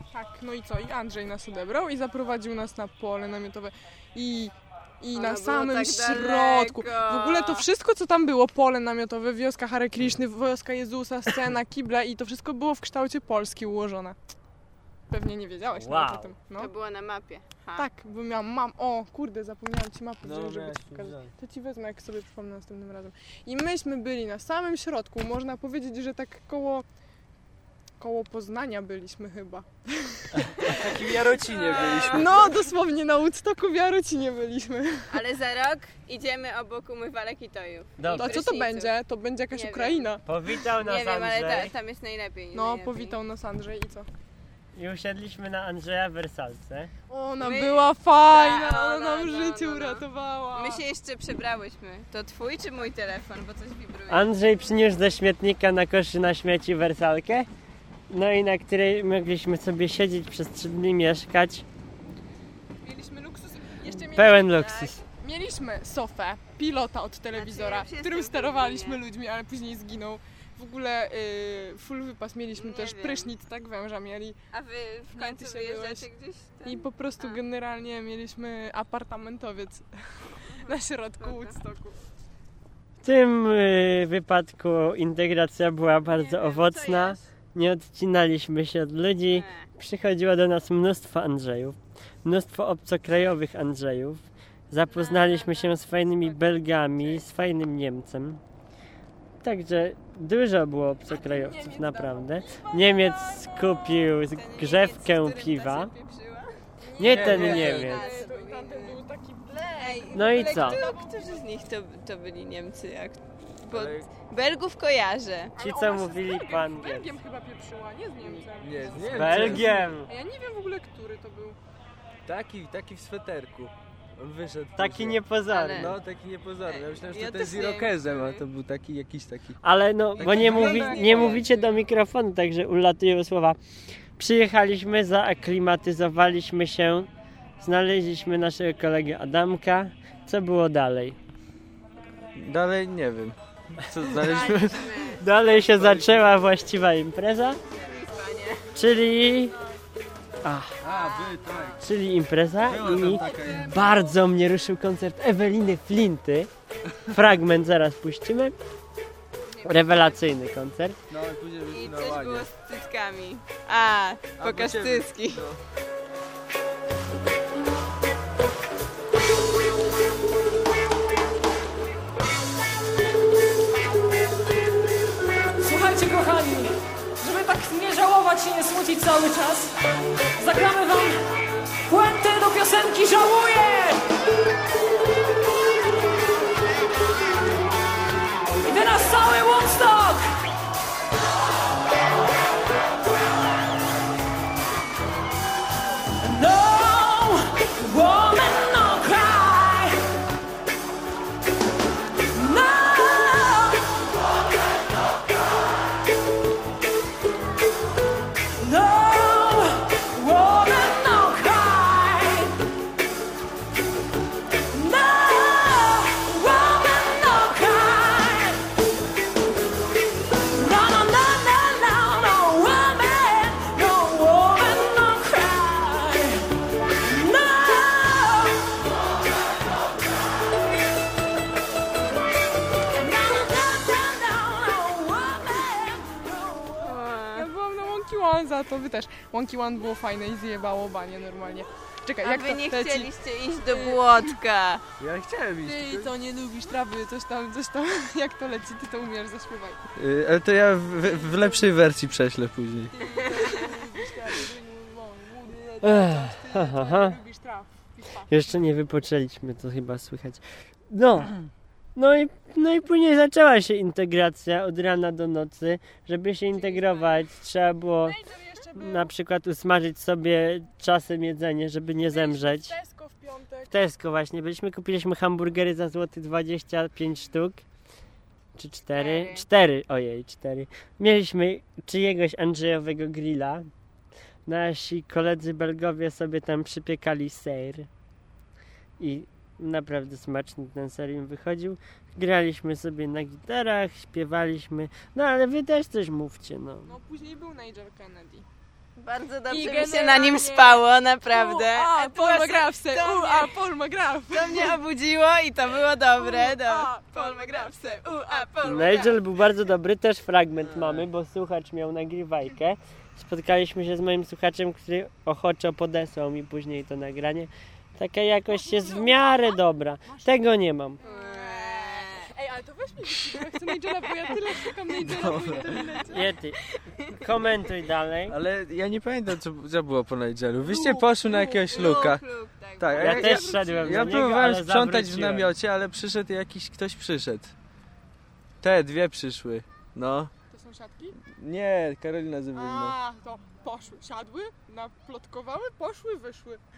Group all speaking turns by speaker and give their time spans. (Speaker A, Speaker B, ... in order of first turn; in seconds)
Speaker A: 0.1-14.2, 15.1-16.7, 17.8-26.8, 28.0-35.1, 38.1-40.2, 42.5-44.1, 47.1-50.8, 62.8-74.4, 75.1-76.0, 76.6-82.0, 101.1-104.0, 106.8-111.5, 115.6-121.6, 130.2-131.8, 148.7-149.8, 153.0-153.9, 237.3-243.1, 243.7-244.1, 245.6-249.8, 251.0-251.7, 252.9-258.4, 266.5-267.2, 268.0-269.1, 272.1-273.8, 296.8-298.4, 299.5-304.8, 306.1-309.1, 318.5-320.5, 321.0-326.3, 330.6-332.1, 333.0-334.3, 340.5-341.2, 342.5-346.6
Speaker B: 5.1-7.6, 16.6-17.9, 31.4-32.3, 35.1-38.9, 39.5-40.2, 40.8-43.2, 47.4-54.4, 64.5-64.9, 67.3-69.0, 72.5-73.3, 74.5-77.4, 80.4-81.5, 86.1-87.2, 89.3-89.7, 94.9-96.5, 104.2-106.5, 107.3-115.5, 125.5-126.0, 126.7-128.4, 144.2-145.2, 147.8-148.8, 150.8-151.8, 152.9-154.1, 159.4-160.2, 161.7-165.4, 236.8-237.5, 242.2-244.8, 253.0-253.8, 278.9-279.5, 298.9-303.5, 304.3-309.2, 321.0-322.3, 331.7-333.3
Speaker C: 15.7-16.3, 38.0-38.4, 40.2-41.7, 44.7-46.9, 54.1-57.5, 58.1-61.6, 64.0-65.0, 83.0-98.4, 99.4-105.9, 107.0-108.1, 110.1-110.8, 115.6-117.2, 119.0-120.1, 124.8-126.0, 129.6-133.6, 134.2-141.2, 145.2-147.6, 148.7-149.6, 150.4-150.7, 151.8-156.5, 157.1-158.5, 159.6-161.0, 255.8-257.2, 258.3-261.4, 261.9-268.2, 268.8-272.7, 273.7-277.6, 278.6-283.7, 284.4-287.9, 289.0-296.9, 308.6-321.0, 326.1-326.6, 327.1-328.4, 333.0-335.5
Speaker D: 20.2-21.3, 30.6-32.6, 107.0-107.9, 113.7-114.1, 118.6-119.9, 122.2-129.6, 130.2-131.4, 142.4-146.5, 150.8-151.8, 152.6-153.8, 161.1-162.5, 164.4-165.6, 245.0-246.1, 249.9-252.9, 310.6-311.1, 324.9-325.8, 328.3-332.2, 332.8-337.5, 338.6-340.3, 341.3-342.9
Speaker E: 175.6-179.8, 180.4-181.2, 181.9-184.0, 188.6-190.2, 196.2-200.0, 202.3-204.0, 208.6-212.6, 214.7-218.6, 220.5-226.5, 227.0-228.7, 232.9-236.9